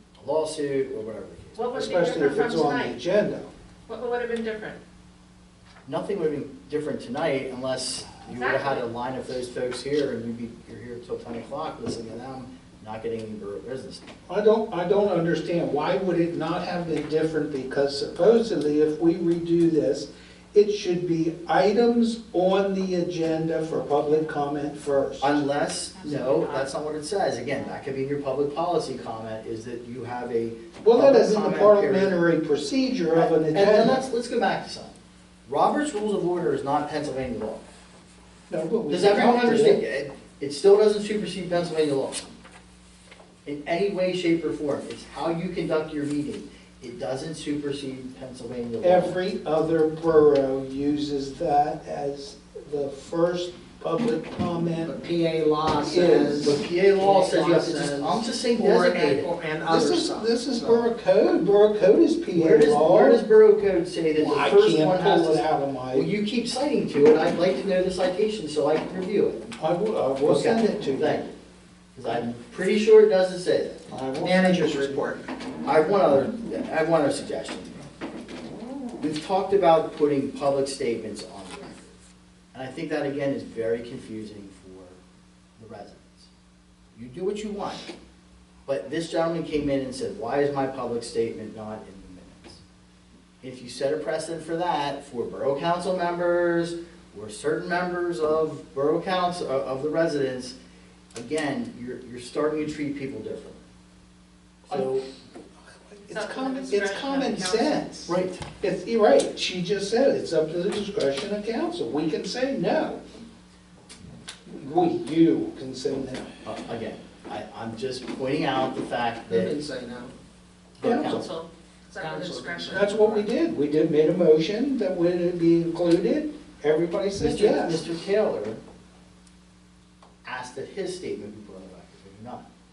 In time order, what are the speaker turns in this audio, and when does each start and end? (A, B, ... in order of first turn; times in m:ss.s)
0:00.2-0:01.7 A
0:01.6-0:03.0 B
0:01.7-0:03.5 C
0:03.9-0:04.8 B
0:05.9-0:14.0 A
0:08.3-0:08.8 B
0:14.3-0:25.4 C
0:25.2-0:32.2 A
0:26.0-0:26.7 B
0:30.8-0:34.0 C
0:33.1-0:37.6 A
0:38.5-0:39.8 C
0:38.9-0:42.4 A
0:43.4-0:49.2 A
0:48.8-0:54.9 C
0:54.8-1:00.9 D
0:55.8-0:56.6 C
0:56.4-0:59.3 A
0:59.7-1:03.2 C
1:02.4-1:09.4 A
1:04.2-1:06.1 C
1:09.6-1:11.3 C
1:10.2-1:11.3 A
1:11.9-1:14.3 A
1:13.9-1:15.0 C
1:14.2-1:15.3 D
1:15.6-1:17.9 A
1:19.0-1:21.9 A
1:22.5-1:25.0 A
1:25.6-1:26.3 A
1:26.9-1:27.9 A
1:28.7-1:32.6 A
1:33.4-1:40.6 A
1:41.1-1:43.6 A
1:44.7-1:45.0 A
1:45.8-1:53.0 C
1:46.1-1:48.0 B
1:48.1-1:48.5 A
1:54.5-1:56.3 C
1:56.4-1:59.6 A
1:59.3-2:00.1 D
2:00.8-2:01.3 A
2:00.8-2:01.2 C
2:01.0-2:03.3 B
2:02.0-2:03.0 D
2:02.7-2:07.8 C
2:07.2-2:08.6 A
2:10.2-2:12.5 A